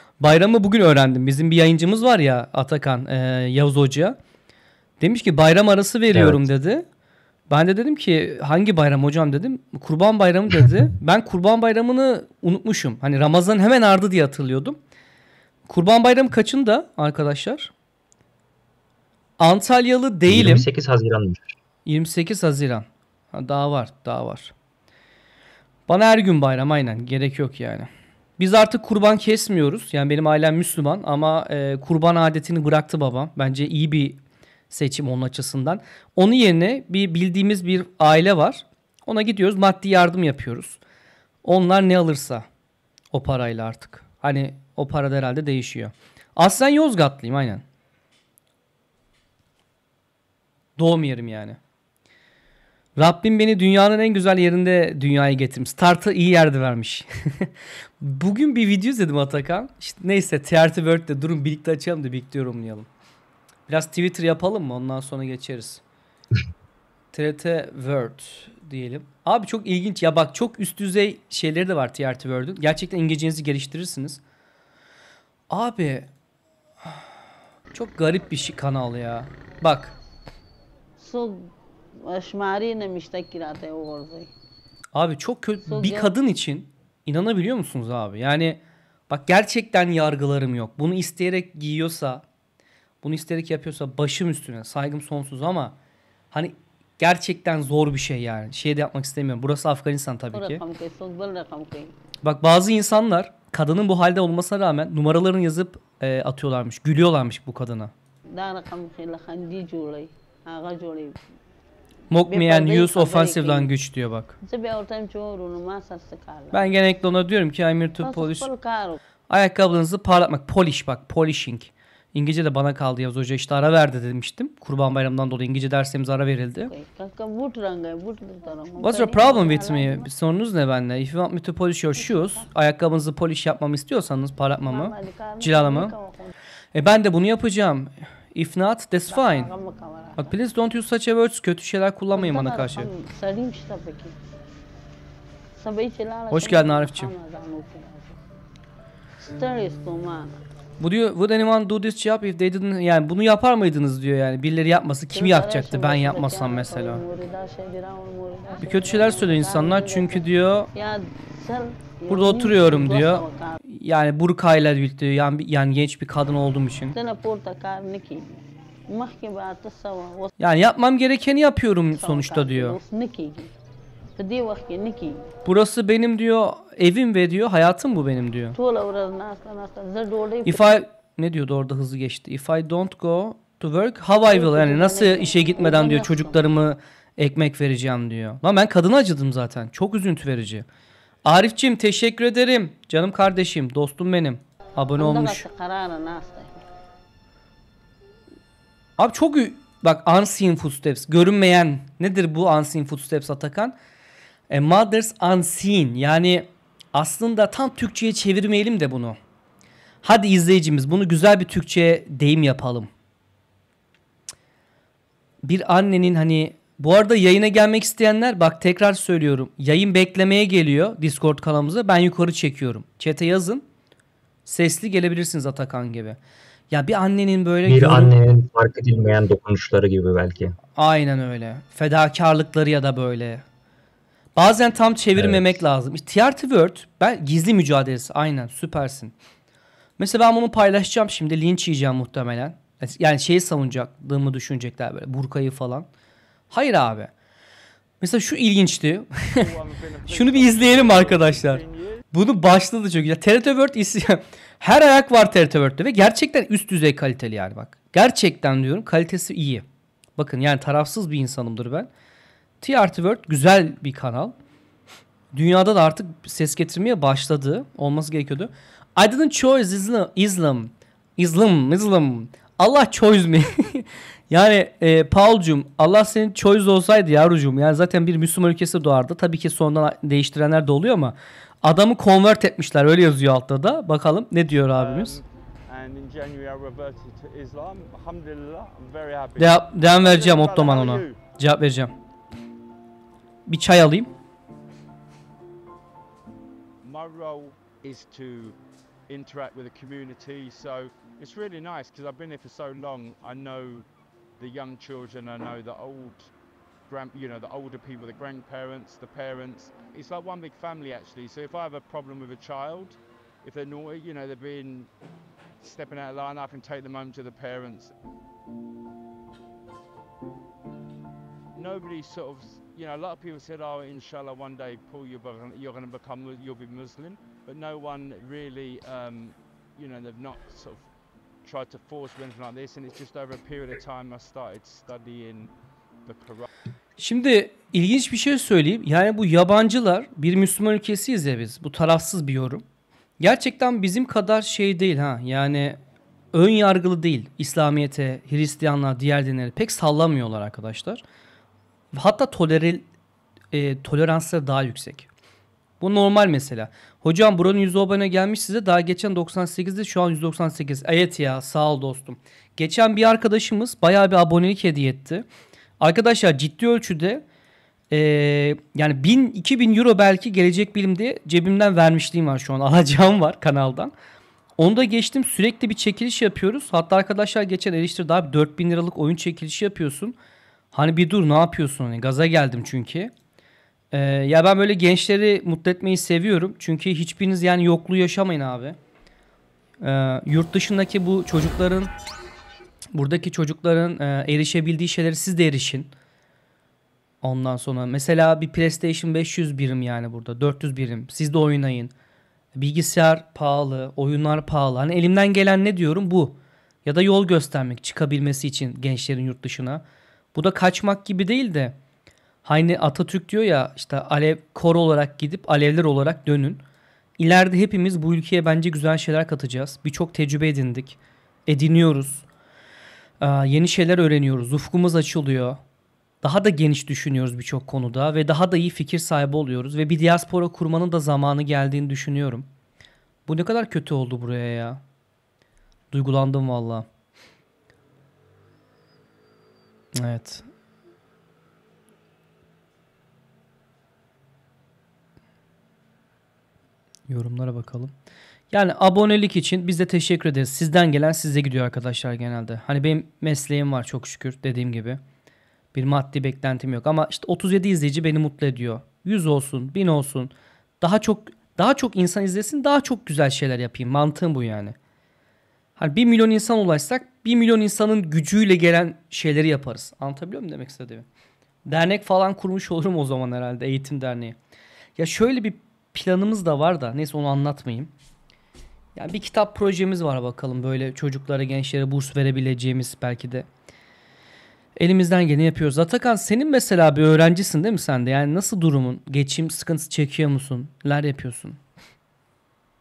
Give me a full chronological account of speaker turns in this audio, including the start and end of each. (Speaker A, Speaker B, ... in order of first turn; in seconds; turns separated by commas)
Speaker A: 0.2-4.2, Speaker A: 5.0-6.8, Speaker B: 6.1-6.5, Speaker A: 7.5-14.8, Speaker A: 15.7-17.7, Speaker A: 19.4-20.6, Speaker B: 20.3-21.6, Speaker A: 21.9-24.5, Speaker A: 25.9-34.2, Speaker A: 34.7-40.8, Speaker A: 41.4-42.5, Speaker A: 43.1-47.6, Speaker A: 50.8-51.6, Speaker A: 53.0-57.5, Speaker A: 58.0-62.9, Speaker A: 63.7-65.8, Speaker A: 67.1-74.2, Speaker A: 75.5-76.1, Speaker A: 77.7-80.0, Speaker C: 81.0-84.3, Speaker A: 84.9-92.2, Speaker C: 85.6-86.1, Speaker A: 93.0-95.8, Speaker A: 96.3-100.6, Speaker C: 100.3-101.9, Speaker A: 102.2-107.9, Speaker C: 108.3-111.2, Speaker A: 112.1-114.4, Speaker C: 112.3-113.7, Speaker C: 114.4-116.8, Speaker A: 116.5-118.5, Speaker C: 118.0-119.0, Speaker A: 119.3-126.7, Speaker C: 126.7-130.1, Speaker A: 128.8-135.9, Speaker C: 132.0-132.5, Speaker C: 134.7-136.3, Speaker A: 136.7-139.5, Speaker C: 139.1-140.3, Speaker A: 140.2-142.9, Speaker C: 142.1-144.2, Speaker C: 145.6-148.2, Speaker A: 146.3-147.1, Speaker C: 149.2-150.3, Speaker A: 150.8-157.0, Speaker C: 155.1-163.6, Speaker A: 158.6-160.7, Speaker A: 162.1-167.0, Speaker C: 166.9-170.3, Speaker A: 170.4-172.8, Speaker C: 171.9-173.5, Speaker C: 174.2-175.3, Speaker A: 175.4-178.6, Speaker C: 178.5-180.8, Speaker A: 180.4-190.7, Speaker C: 184.3-186.4, Speaker A: 191.2-195.5, Speaker C: 195.0-196.6, Speaker A: 199.0-203.7, Speaker A: 204.5-209.2, Speaker A: 210.0-212.9, Speaker A: 215.4-223.6, Speaker A: 224.5-226.2, Speaker A: 226.7-228.2, Speaker B: 227.7-230.6, Speaker A: 230.8-233.4, Speaker A: 234.4-239.1, Speaker B: 235.2-235.6, Speaker A: 240.0-245.9, Speaker A: 246.5-247.1, Speaker A: 248.0-249.4, Speaker D: 249.3-252.1, Speaker A: 250.1-259.6, Speaker A: 260.2-261.9, Speaker A: 262.6-264.4, Speaker A: 265.3-285.2, Speaker D: 284.7-291.2, Speaker A: 289.4-291.9, Speaker A: 293.5-294.1, Speaker D: 296.8-298.6, Speaker D: 299.1-303.9, Speaker D: 304.4-306.3, Speaker D: 306.9-314.9, Speaker D: 315.6-317.9, Speaker D: 321.6-330.9, Speaker D: 331.4-335.5, Speaker D: 336.1-336.5, Speaker A: 337.0-342.6, Speaker A: 343.2-345.8, Speaker A: 346.3-351.0, Speaker A: 351.9-352.8, Speaker A: 353.5-355.1, Speaker A: 355.8-365.2, Speaker A: 365.8-367.2, Speaker A: 367.9-373.9, Speaker A: 374.6-380.1, Speaker A: 380.7-383.1, Speaker A: 383.9-388.8, Speaker A: 389.8-391.9, Speaker A: 392.9-395.9, Speaker A: 397.2-401.9, Speaker A: 402.6-409.8, Speaker A: 410.3-411.8, Speaker A: 412.4-416.6, Speaker A: 417.2-422.3, Speaker A: 423.2-425.6, Speaker A: 426.2-432.5, Speaker A: 433.3-434.8, Speaker A: 435.9-436.9, Speaker A: 439.9-440.5, Speaker A: 447.1-447.9, Speaker A: 448.5-455.0, Speaker A: 455.7-464.8, Speaker A: 465.8-471.1, Speaker A: 471.7-474.4, Speaker A: 475.0-477.9, Speaker A: 479.0-483.5, Speaker A: 484.8-491.6